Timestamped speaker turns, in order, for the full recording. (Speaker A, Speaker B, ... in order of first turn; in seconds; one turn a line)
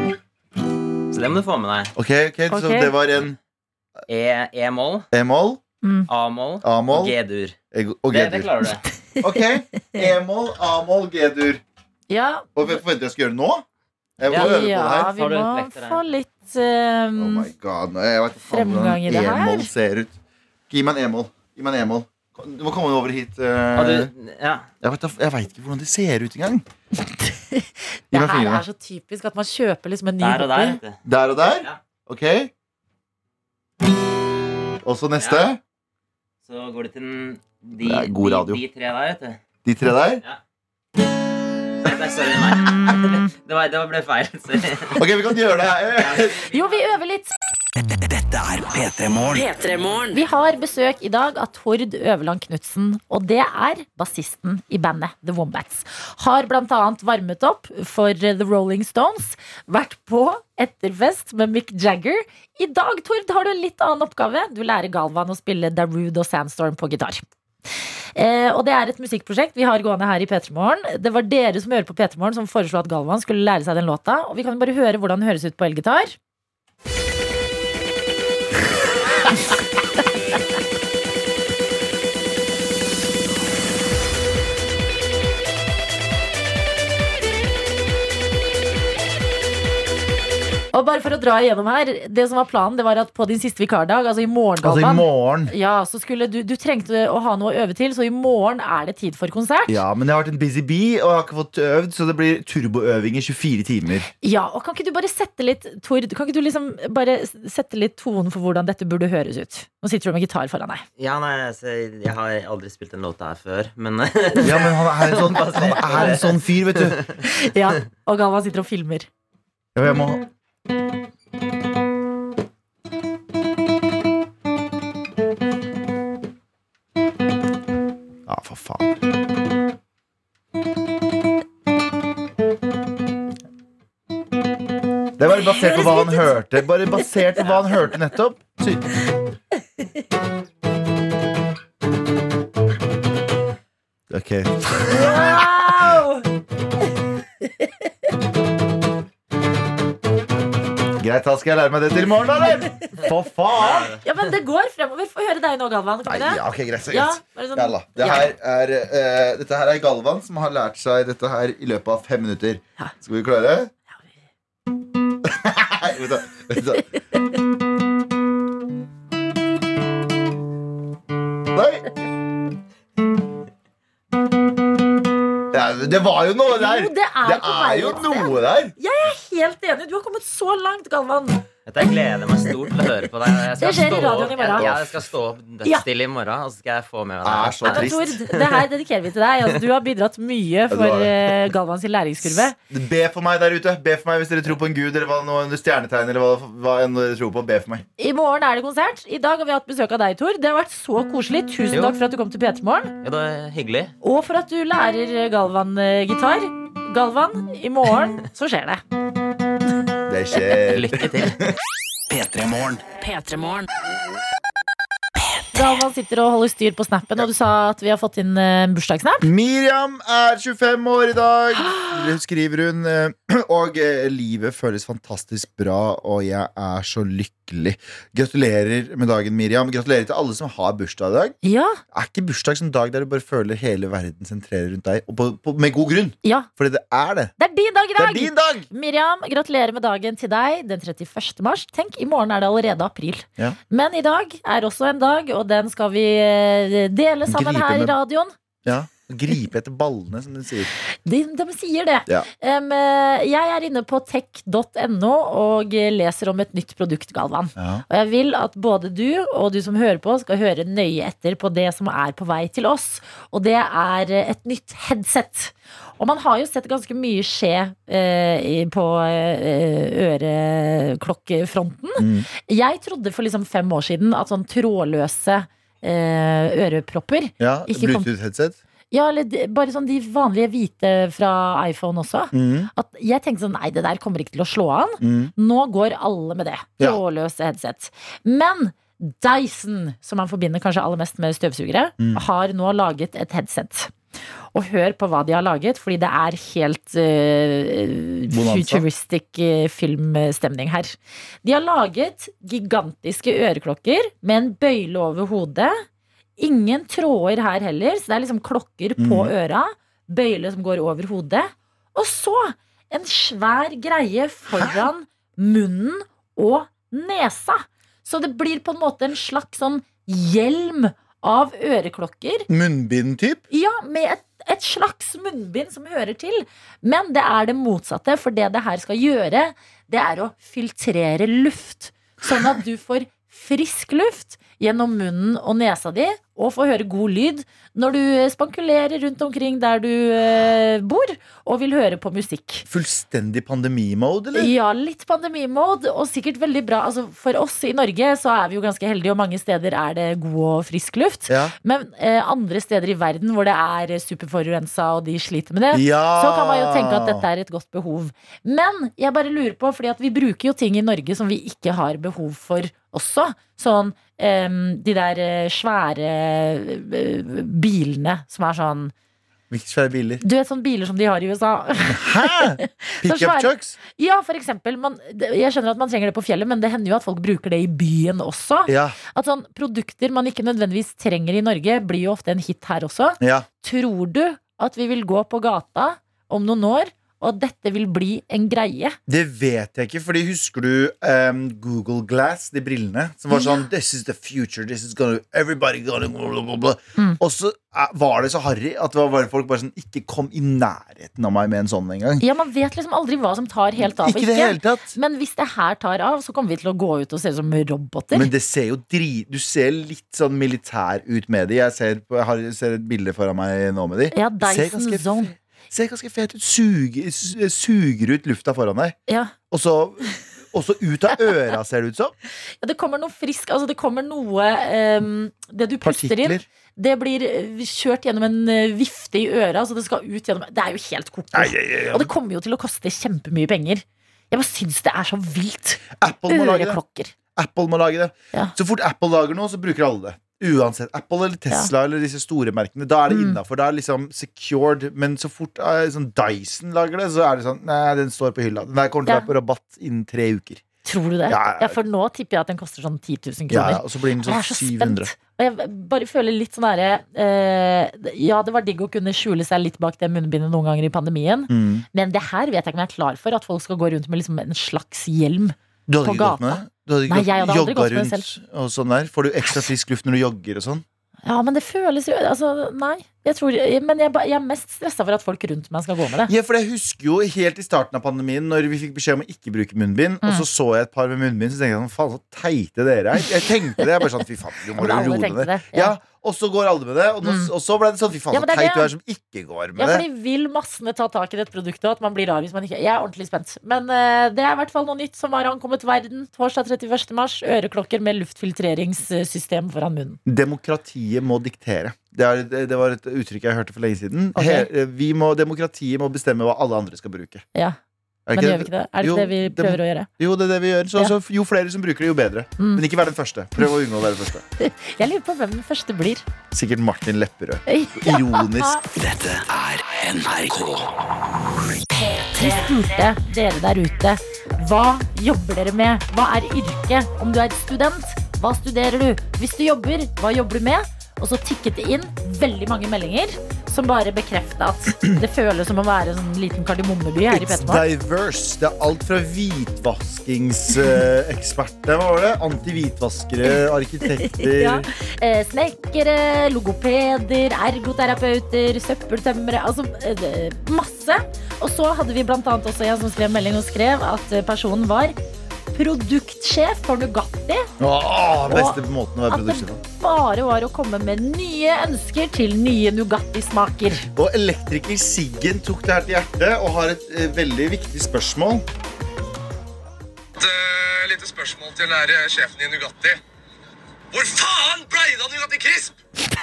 Speaker A: 1.1-1.9
Speaker B: 1.9-3.4
Speaker C: 2.5-2.9
Speaker A: 4.1-5.1
Speaker B: 5.1-5.6
Speaker C: 5.8-6.1
Speaker A: 6.1-7.6
Speaker B: 6.6-7.2
Speaker B: 7.7-8.7
Speaker A: 8.1-8.8
Speaker B: 9.2-11.6
Speaker C: 12.1-12.5
Speaker B: 12.6-13.6
Speaker B: 14.2-15.1
Speaker A: 14.3-16.0
Speaker C: 14.3-17.5
Speaker B: 17.1-20.1
Speaker C: 18.5-19.7
Speaker B: 20.7-24.1
Speaker A: 23.7-24.7
Speaker B: 24.8-26.6
Speaker C: 27.5-30.8
Speaker B: 28.1-28.6
Speaker A: 30.2-31.0
Speaker B: 31.0-32.5
Speaker B: 34.8-35.6
Speaker A: 35.2-35.5
Speaker A: 36.4-39.4
Speaker B: 37.8-38.6
Speaker B: 39.6-40.2
Speaker A: 41.8-45.2
Speaker B: 45.0-46.4
Speaker A: 45.9-46.8
Speaker C: 46.5-47.3
Speaker D: 47.9-49.6
Speaker C: 50.1-67.2
Speaker C: 68.2-76.2
Speaker C: 90.7-99.8
Speaker B: 94.6-95.5
Speaker B: 99.7-104.1
Speaker C: 104.2-110.8
Speaker A: 111.0-117.2
Speaker B: 114.4-117.0
Speaker C: 117.2-119.1
Speaker B: 119.7-120.2
Speaker B: 128.3-129.0
Speaker B: 135.2-138.9
Speaker C: 135.7-136.0
Speaker B: 144.1-145.4
Speaker C: 144.8-146.3
Speaker B: 151.0-153.9
Speaker A: 153.6-154.0
Speaker C: 153.8-158.3
Speaker B: 156.1-163.7
Speaker B: 165.2-166.8
Speaker B: 171.5-171.9
Speaker B: 175.5-178.7
Speaker C: 176.5-181.4
Speaker A: 181.7-188.0
Speaker C: 183.6-184.7
Speaker B: 184.6-184.9
Speaker B: 187.2-188.2
Speaker C: 187.6-192.5
Speaker B: 190.7-191.3
Speaker B: 192.2-197.8
Speaker C: 198.0-202.9
Speaker A: 201.7-202.0
Speaker A: 203.0-203.9
Speaker C: 204.0-208.8
Speaker B: 210.1-211.4
Speaker A: 210.7-211.4
Speaker D: 212.1-212.9
Speaker C: 215.5-219.3
Speaker B: 219.2-231.3
Speaker C: 221.6-222.1
Speaker C: 231.4-231.8
Speaker B: 231.9-237.3
Speaker C: 236.2-236.5
Speaker C: 237.4-248.3
Speaker B: 237.9-238.7
Speaker B: 247.3-247.9
Speaker B: 248.6-250.7
Speaker C: 251.0-278.1
Speaker B: 257.6-257.8
Speaker B: 272.0-272.3
Speaker B: 277.4-278.6
Speaker C: 278.9-293.9
Speaker B: 282.3-282.7
Speaker B: 285.0-285.3
Speaker C: 294.5-305.8
Speaker B: 298.3-298.8
Speaker C: 306.4-322.5
Speaker B: 309.0-309.3
Speaker B: 322.5-323.4
Speaker C: 323.5-342.6
Speaker B: 342.7-344.5
Speaker C: 344.3-368.9
Speaker B: 351.3-351.5
Speaker B: 355.7-357.2
Speaker B: 369.5-370.2
Speaker C: 370.2-389.0
Speaker B: 371.9-373.8
Speaker B: 378.7-379.0
Speaker B: 383.2-383.4
Speaker B: 389.1-402.2
Speaker C: 393.3-393.6
Speaker C: 402.2-408.3
Speaker B: 403.8-404.9
Speaker B: 408.1-419.0
Speaker C: 414.1-415.3
Speaker C: 419.1-419.3
Speaker B: 419.5-422.1
Speaker C: 422.6-437.1
Speaker B: 425.8-426.4
Speaker B: 431.3-432.1
Speaker B: 436.0-436.8
Speaker B: 437.4-450.6
Speaker C: 443.1-443.4
Speaker C: 450.8-468.3
Speaker B: 451.3-451.8
Speaker B: 453.5-455.1
Speaker B: 461.5-461.9
Speaker B: 465.9-470.8
Speaker C: 471.2-476.3
Speaker B: 476.2-490.0
Speaker C: 484.8-485.9
Speaker C: 487.2-487.5
Speaker C: 488.3-488.9
Speaker C: 489.8-500.2
Speaker B: 500.2-507.4
Speaker C: 504.4-504.7
Speaker B: 508.3-514.4
Speaker C: 508.3-510.1
Speaker C: 512.6-512.8
Speaker C: 514.6-516.2
Speaker B: 516.5-518.8
Speaker C: 517.7-518.8
Speaker D: 518.9-520.9
Speaker C: 522.3-537.8
Speaker B: 537.3-544.9
Speaker C: 544.2-555.1
Speaker C: 555.7-557.7
Speaker B: 557.8-559.8
Speaker C: 558.5-558.8
Speaker C: 559.3-564.1
Speaker B: 564.1-568.6
Speaker E: 570.4-573.2
Speaker E: 574.1-575.9